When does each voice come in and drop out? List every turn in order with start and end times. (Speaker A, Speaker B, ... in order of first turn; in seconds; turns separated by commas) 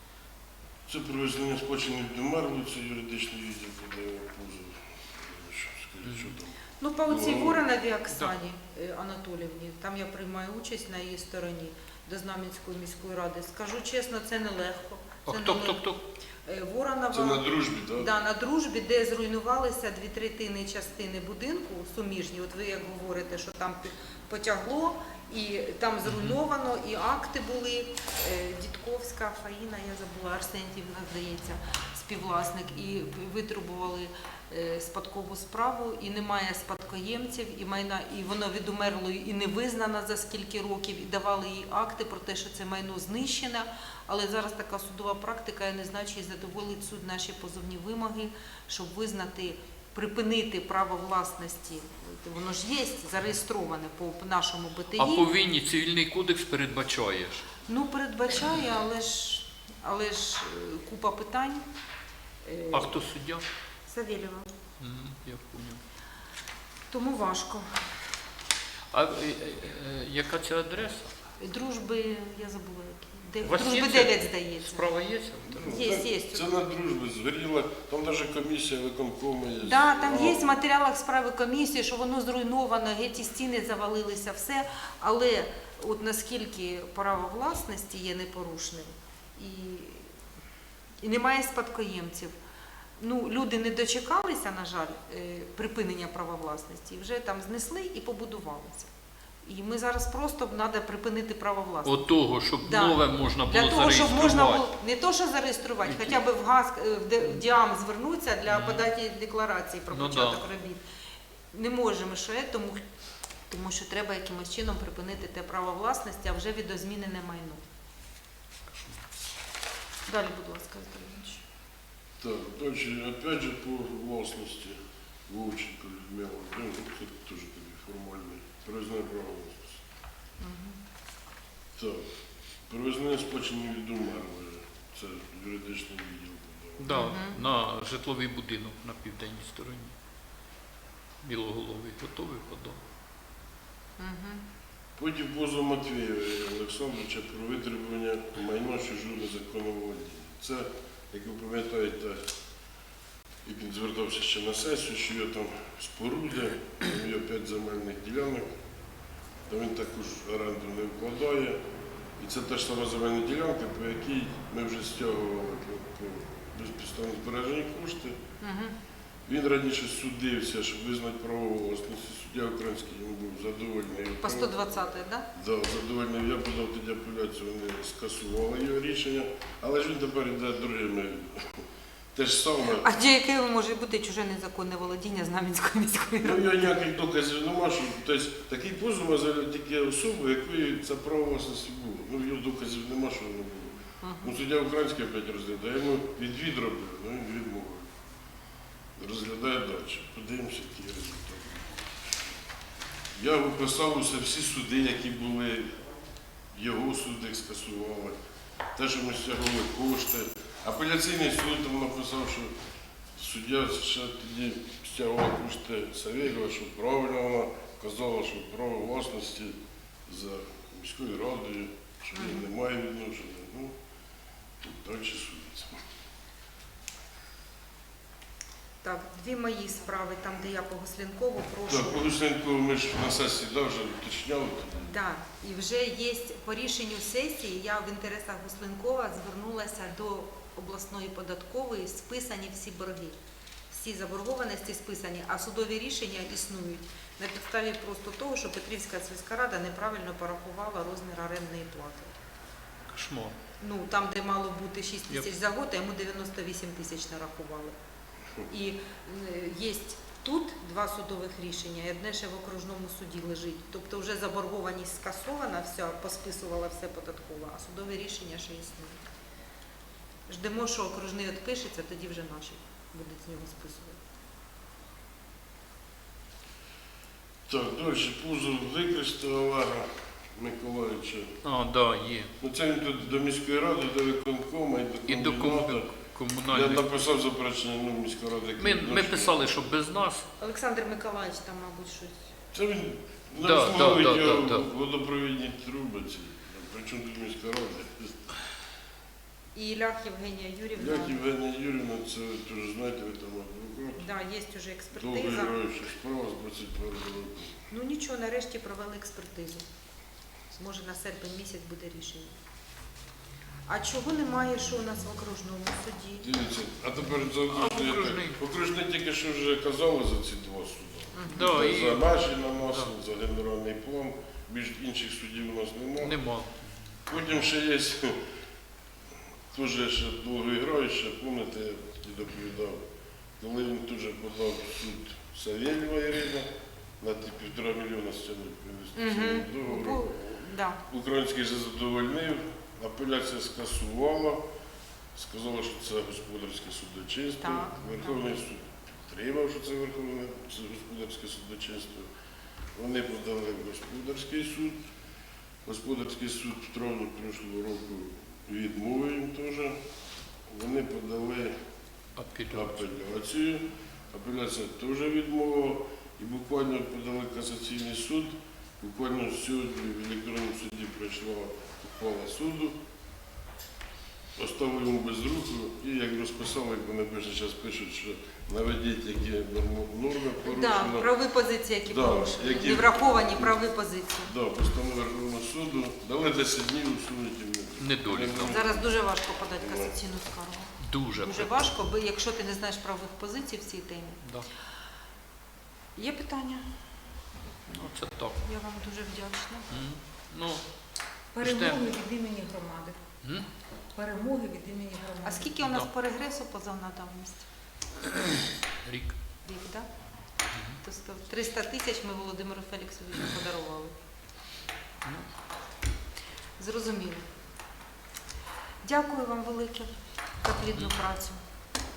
Speaker A: 0.9-7.6, Speaker B: 6.1-6.3, Speaker C: 6.8-15.8, Speaker B: 15.3-16.0, Speaker C: 16.5-55.3, Speaker A: 17.1-18.1, Speaker B: 26.1-26.4, Speaker B: 55.0-57.5, Speaker C: 57.7-61.7, Speaker C: 62.5-63.0, Speaker B: 62.7-63.5, Speaker C: 63.9-64.5, Speaker B: 64.8-65.8, Speaker C: 66.9-67.8, Speaker B: 68.9-71.1, Speaker C: 71.4-74.8, Speaker B: 73.4-75.7, Speaker A: 75.5-80.5, Speaker C: 75.6-76.5, Speaker C: 79.6-90.1, Speaker C: 91.0-92.3, Speaker C: 93.0-98.9, Speaker C: 99.4-102.0, Speaker B: 101.8-104.7, Speaker C: 102.6-110.8, Speaker B: 105.8-106.2, Speaker B: 108.5-108.9, Speaker B: 109.9-110.4, Speaker C: 111.5-112.8, Speaker C: 113.5-117.6, Speaker B: 118.7-119.0, Speaker C: 120.1-121.4, Speaker A: 122.2-129.8, Speaker C: 130.4-130.8, Speaker A: 131.8-132.1, Speaker A: 132.7-137.2, Speaker B: 136.8-139.9, Speaker C: 136.9-137.4, Speaker B: 141.2-142.8, Speaker C: 144.0-144.4, Speaker A: 145.0-152.3, Speaker A: 153.4-158.5, Speaker A: 159.5-161.6, Speaker A: 162.2-168.2, Speaker C: 168.4-168.8, Speaker A: 169.3-174.6, Speaker C: 174.2-175.3, Speaker A: 175.3-182.9, Speaker C: 182.8-186.7, Speaker A: 186.2-197.9, Speaker C: 194.0-194.3, Speaker A: 199.0-202.3, Speaker A: 203.2-205.8, Speaker A: 206.5-208.2, Speaker A: 208.8-212.5, Speaker A: 213.2-219.6, Speaker A: 220.1-223.7, Speaker C: 222.2-222.4, Speaker A: 224.6-225.8, Speaker C: 228.8-232.1, Speaker A: 231.7-234.9, Speaker C: 234.9-243.2, Speaker C: 243.7-252.1, Speaker B: 252.9-253.4, Speaker C: 253.6-257.8, Speaker C: 258.5-269.0, Speaker C: 270.3-274.0, Speaker A: 277.5-281.3, Speaker B: 281.4-282.3, Speaker A: 282.4-285.9, Speaker B: 285.1-286.9, Speaker A: 286.5-289.5, Speaker B: 288.6-290.3, Speaker C: 290.4-292.2, Speaker A: 292.5-298.2, Speaker B: 293.4-294.7, Speaker C: 299.6-301.2, Speaker A: 300.8-304.0, Speaker C: 304.0-305.6, Speaker A: 304.9-307.5, Speaker C: 307.7-309.6, Speaker C: 310.5-312.4, Speaker C: 313.7-316.3, Speaker A: 316.2-326.2, Speaker B: 317.5-318.4, Speaker C: 321.1-321.5, Speaker B: 321.3-322.1, Speaker B: 326.0-326.7, Speaker A: 327.1-328.2, Speaker A: 329.5-332.8, Speaker A: 333.4-336.5, Speaker A: 337.0-340.1, Speaker C: 338.9-340.8, Speaker A: 340.9-344.4, Speaker A: 345.1-352.1, Speaker C: 347.4-348.4, Speaker A: 352.8-354.8, Speaker A: 355.6-359.8, Speaker A: 360.5-361.6, Speaker B: 362.2-362.9, Speaker A: 362.5-372.8, Speaker A: 374.4-381.1, Speaker C: 380.4-384.3, Speaker A: 381.9-383.6, Speaker A: 384.2-388.9, Speaker B: 387.8-388.6, Speaker C: 388.4-394.2, Speaker A: 389.6-389.9, Speaker B: 390.8-391.5, Speaker B: 394.2-394.5, Speaker C: 396.0-396.7, Speaker B: 397.7-398.4, Speaker C: 398.4-399.7, Speaker B: 399.7-400.6, Speaker D: 401.3-403.0, Speaker B: 401.4-401.9, Speaker D: 403.9-405.5, Speaker C: 405.2-407.4, Speaker B: 405.6-405.9, Speaker B: 408.0-409.2, Speaker C: 409.4-409.9, Speaker B: 410.5-410.8, Speaker C: 410.8-413.9, Speaker C: 416.6-417.3, Speaker C: 418.8-419.9, Speaker C: 420.4-421.4